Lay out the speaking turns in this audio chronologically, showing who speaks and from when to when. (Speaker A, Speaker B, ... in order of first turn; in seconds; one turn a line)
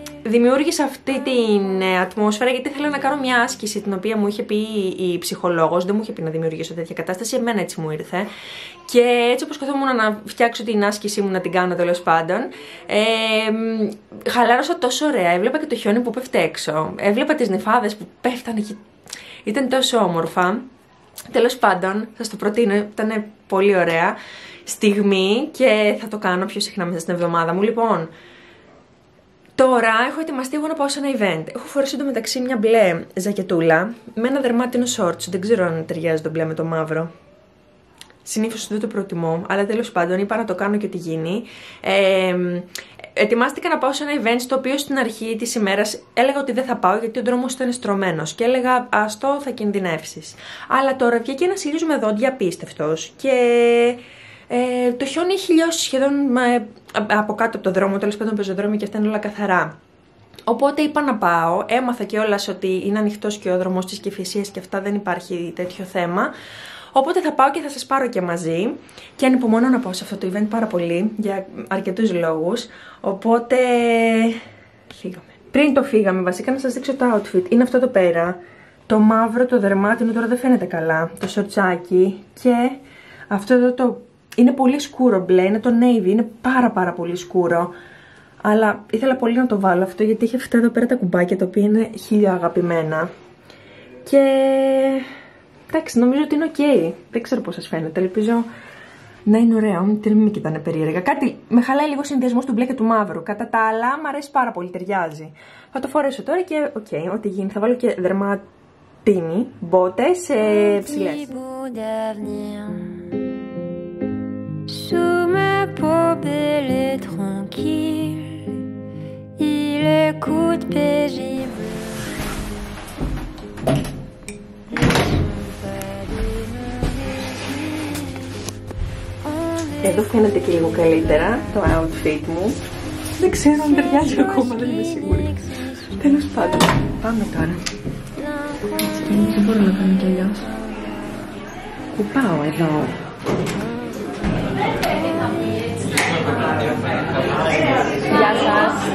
Speaker A: 0.2-8.3
Speaker A: 8.9-18.8
Speaker A: 19.4-20.7
Speaker A: 21.3-28.1
Speaker A: 29.6-37.1
Speaker A: 38.2-59.7
Speaker A: 60.5-66.3
Speaker A: 66.9-74.4
Speaker A: 74.9-82.8
Speaker A: 83.3-87.7
Speaker A: 88.4-93.1
Speaker A: 94.0-95.1
Speaker A: 95.7-98.5
Speaker A: 99.2-108.4
Speaker A: 109.0-111.3
Speaker B: 110.4-113.0
Speaker B: 114.7-118.6
Speaker B: 119.4-122.0
Speaker B: 124.7-128.3
Speaker B: 129.3-129.9
Speaker A: 129.8-132.6
Speaker A: 133.2-135.3
Speaker B: 133.9-136.1
Speaker A: 136.0-137.6
Speaker B: 138.4-138.8
Speaker A: 138.8-140.5
Speaker A: 141.9-143.0
Speaker B: 145.2-145.5
Speaker A: 148.1-148.8